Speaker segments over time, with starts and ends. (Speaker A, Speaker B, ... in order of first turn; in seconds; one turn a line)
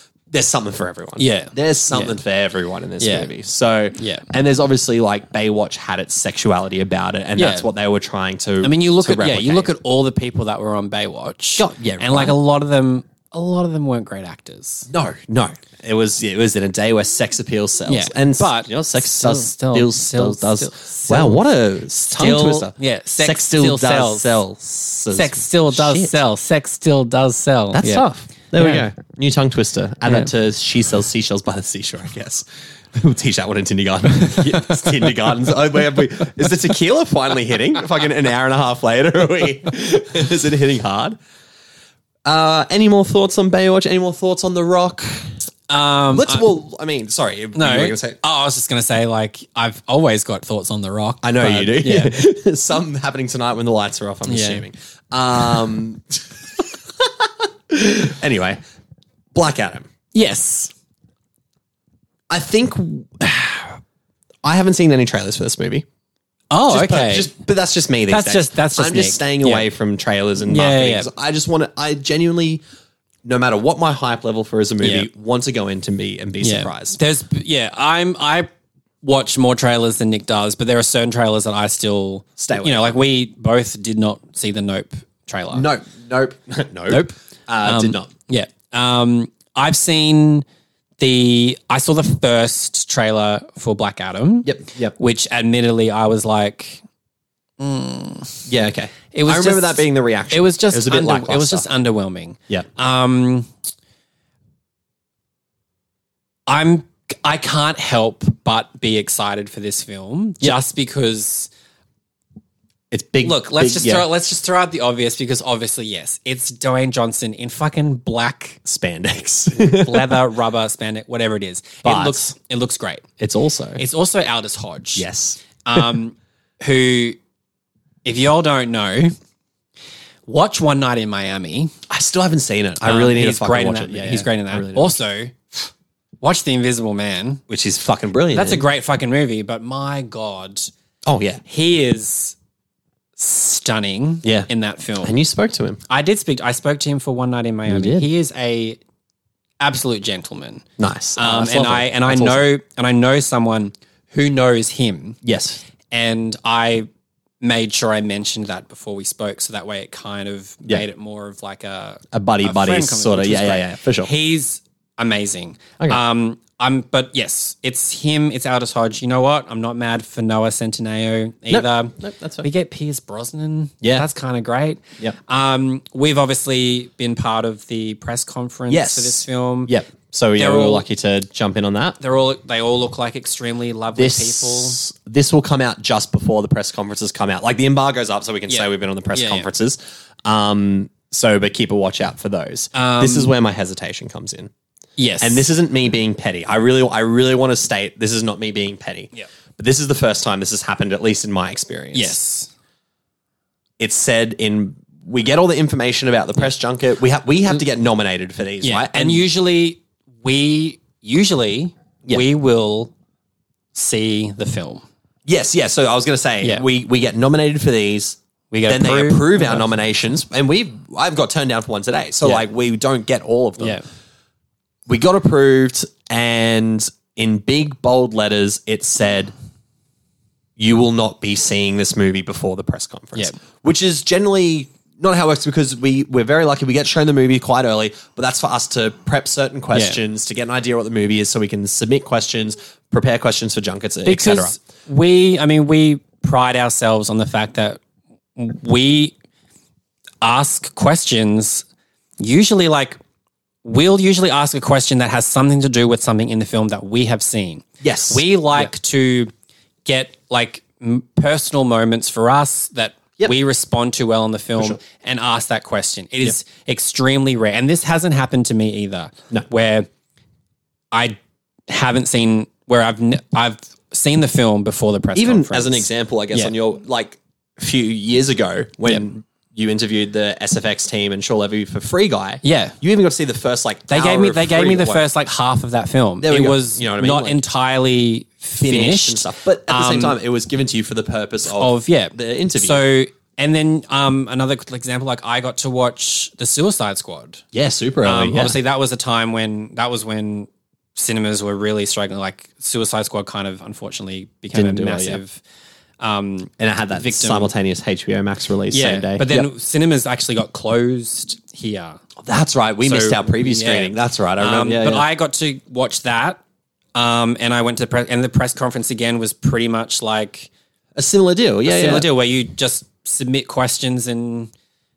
Speaker A: 0.3-9.7
Speaker B: 1.2-2.2
Speaker B: 3.0-3.3
Speaker B: 4.0-4.3
Speaker B: 7.4-7.7
Speaker B: 8.6-14.9
Speaker A: 11.6-12.3
Speaker A: 14.9-26.2
Speaker B: 17.9-21.5
Speaker B: 22.1-24.4
Speaker B: 25.1-28.8
Speaker A: 27.7-41.2
Speaker B: 34.2-35.3
Speaker A: 42.3-45.3
Speaker B: 45.7-46.5
Speaker A: 46.1-48.2
Speaker B: 47.5-52.1
Speaker A: 51.2-58.6
Speaker B: 54.3-54.6
Speaker A: 59.3-59.9
Speaker B: 60.1-60.7
Speaker A: 62.3-63.8
Speaker A: 64.4-65.8
Speaker B: 66.5-67.3
Speaker A: 66.7-72.6
Speaker B: 68.1-69.7
Speaker B: 70.4-71.1
Speaker A: 73.2-77.0
Speaker B: 74.8-75.1
Speaker B: 76.4-78.5
Speaker B: 79.0-85.7
Speaker A: 82.4-83.0
Speaker A: 85.5-88.1
Speaker B: 86.9-90.4
Speaker B: 91.0-96.8
Speaker A: 94.4-95.0
Speaker B: 97.6-98.5
Speaker A: 98.5-101.7
Speaker B: 99.1-103.5
Speaker B: 106.5-111.5
Speaker A: 112.9-114.1
Speaker B: 113.2-118.6
Speaker A: 118.6-120.1
Speaker B: 119.5-123.0
Speaker A: 121.8-122.2
Speaker A: 123.2-123.8
Speaker B: 123.8-125.1
Speaker A: 125.0-125.9
Speaker B: 125.6-127.2
Speaker B: 128.0-129.1
Speaker B: 130.3-131.7
Speaker A: 131.9-135.0
Speaker B: 132.8-135.7
Speaker B: 136.2-137.4
Speaker A: 137.5-138.6
Speaker B: 138.3-140.7
Speaker A: 141.1-141.4
Speaker B: 141.4-142.3
Speaker B: 143.2-145.2
Speaker A: 145.0-145.8
Speaker B: 145.9-148.8
Speaker A: 147.7-148.1
Speaker B: 149.6-150.6
Speaker A: 150.8-152.4
Speaker B: 151.2-155.2
Speaker A: 155.2-155.6
Speaker B: 155.9-156.9
Speaker B: 157.4-179.7
Speaker A: 162.1-164.1
Speaker A: 171.5-172.5
Speaker A: 178.7-182.0
Speaker B: 180.4-180.8
Speaker B: 182.0-184.8
Speaker A: 183.9-194.5
Speaker B: 188.5-189.5
Speaker B: 192.7-193.3
Speaker B: 195.0-195.5
Speaker A: 195.2-202.2
Speaker B: 201.9-202.5
Speaker A: 203.8-209.3
Speaker B: 208.6-212.9
Speaker B: 213.7-214.8
Speaker A: 215.3-223.8
Speaker B: 218.5-219.7
Speaker B: 223.6-223.8
Speaker A: 224.9-229.3
Speaker A: 230.6-244.6
Speaker B: 239.7-240.0
Speaker B: 244.1-247.8
Speaker B: 248.3-249.1
Speaker B: 250.2-251.6
Speaker B: 252.2-253.0
Speaker B: 253.6-259.3
Speaker A: 257.8-258.7
Speaker B: 259.8-269.9
Speaker B: 270.9-271.2
Speaker B: 271.7-276.5
Speaker A: 275.1-285.1
Speaker B: 282.4-282.8
Speaker B: 283.9-290.2
Speaker A: 286.2-287.4
Speaker A: 288.6-292.8
Speaker B: 291.6-297.4
Speaker A: 297.5-298.6
Speaker B: 298.0-305.4
Speaker A: 304.5-305.2
Speaker B: 306.0-307.5
Speaker A: 306.6-309.5
Speaker B: 308.7-312.0
Speaker A: 312.2-315.1
Speaker B: 312.8-316.4
Speaker B: 316.9-320.5
Speaker A: 320.9-322.1
Speaker B: 321.6-324.5